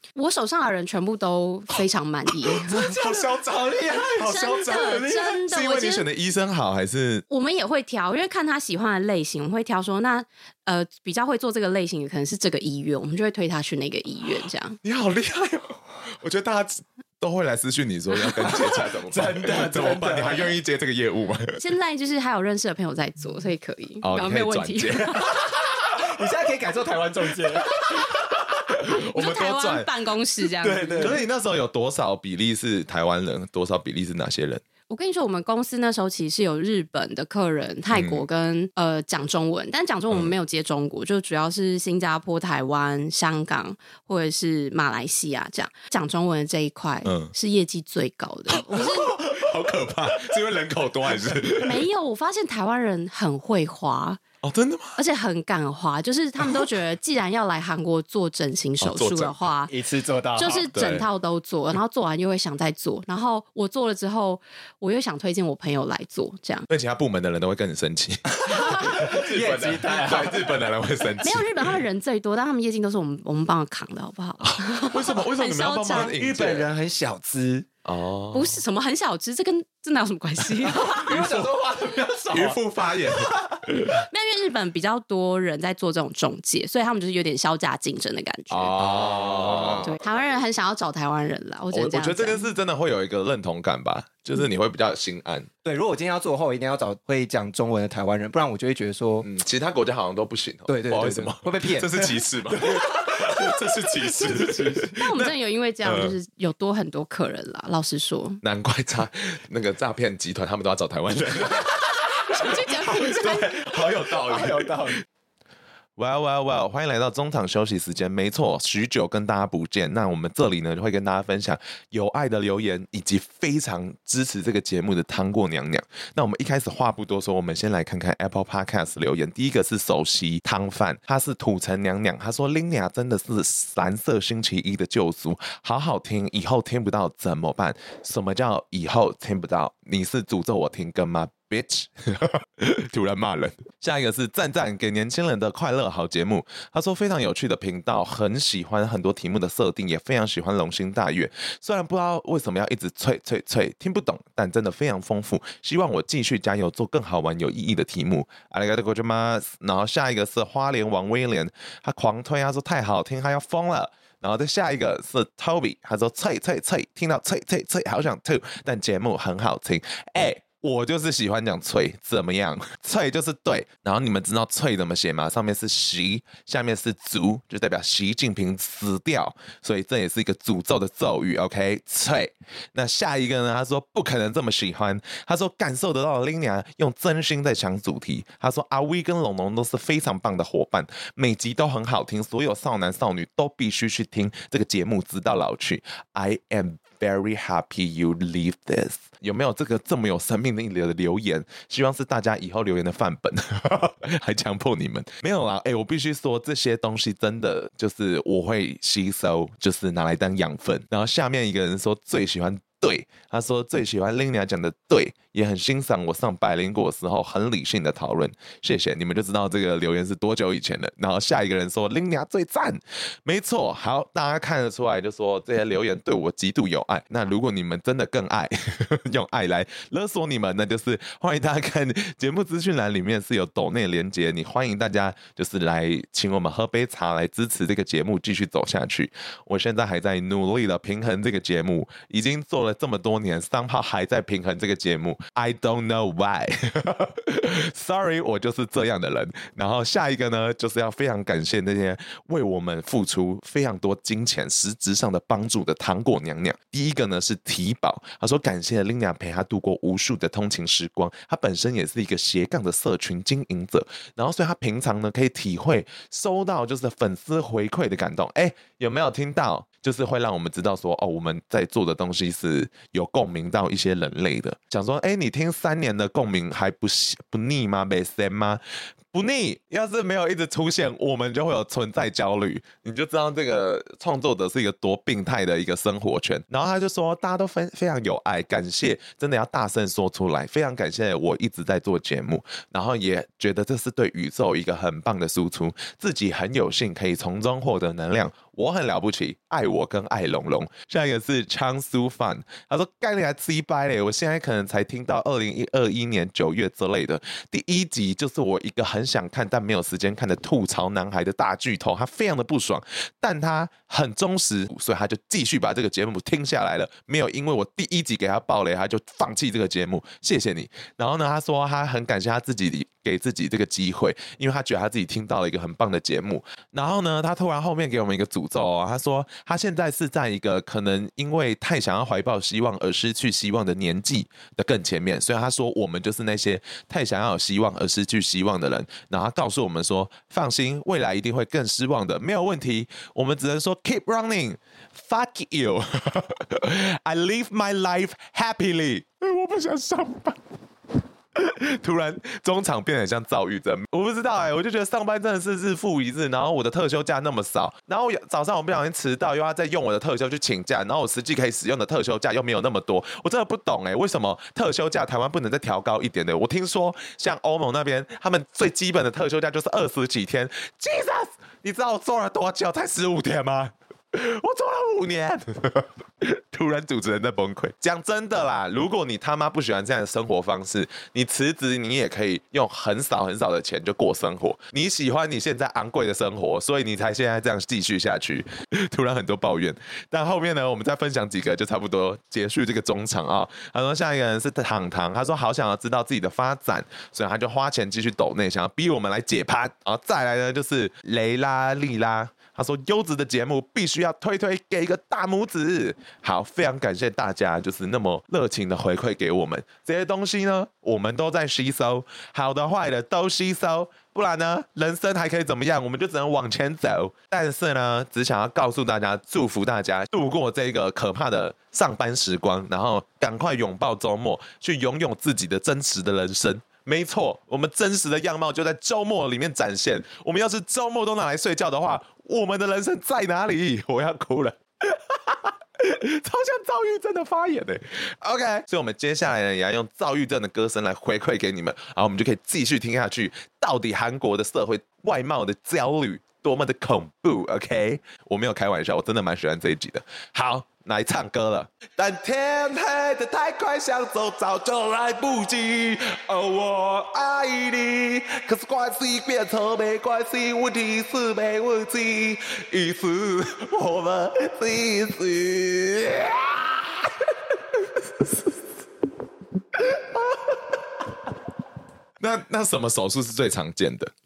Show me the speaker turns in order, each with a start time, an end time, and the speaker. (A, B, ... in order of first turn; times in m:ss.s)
0:00.2-0:02.9 A
0:02.5-0:07.2 B
0:02.8-0:05.1 C
0:03.9-0:06.1 A
0:07.3-0:14.8 A
0:14.8-0:21.6 B
0:18.3-0:20.5 C
0:21.6-0:25.2 A
0:24.0-0:25.4 B
0:25.6-0:27.8 C
0:27.9-0:29.9 B
0:29.1-0:31.2 A
0:30.6-0:31.2 C
0:31.0-0:34.6 B
0:34.9-0:49.2 A
0:37.9-0:38.2 B
0:47.0-0:47.3 B
0:48.5-0:51.8 B
0:51.5-0:54.2 A
0:54.4-0:55.0 B
0:55.0-0:59.7 A
0:58.8-0:59.5 B
0:59.7-1:00.7 C
1:00.4-1:06.7 A
1:00.7-1:01.1 B
1:06.7-1:11.5 B
1:08.4-1:10.6 C
1:11.2-1:16.1 A
1:14.4-1:16.7 B
1:16.0-1:17.7 C
1:17.8-1:18.6 B
1:18.3-1:21.2 A
1:20.7-1:23.4 C
1:21.0-1:21.5 B
1:22.3-1:24.0 B
1:23.9-1:28.8 A
1:28.5-1:30.0 B
1:28.8-1:29.9 C
1:29.8-1:32.5 A
1:31.7-1:35.5 B
1:35.6-1:39.3 C
1:39.2-1:46.2 B
1:40.7-1:43.6 C
1:44.2-1:44.8 C
1:44.9-1:48.4 A
1:48.4-1:54.9 B
1:52.3-1:53.6 A
1:54.3-1:55.0 C
1:56.0-4:38.6 B
4:39.1-5:50.4 B
5:51.3-7:48.4 B
7:49.7-7:50.8 B
7:52.2-7:54.1 B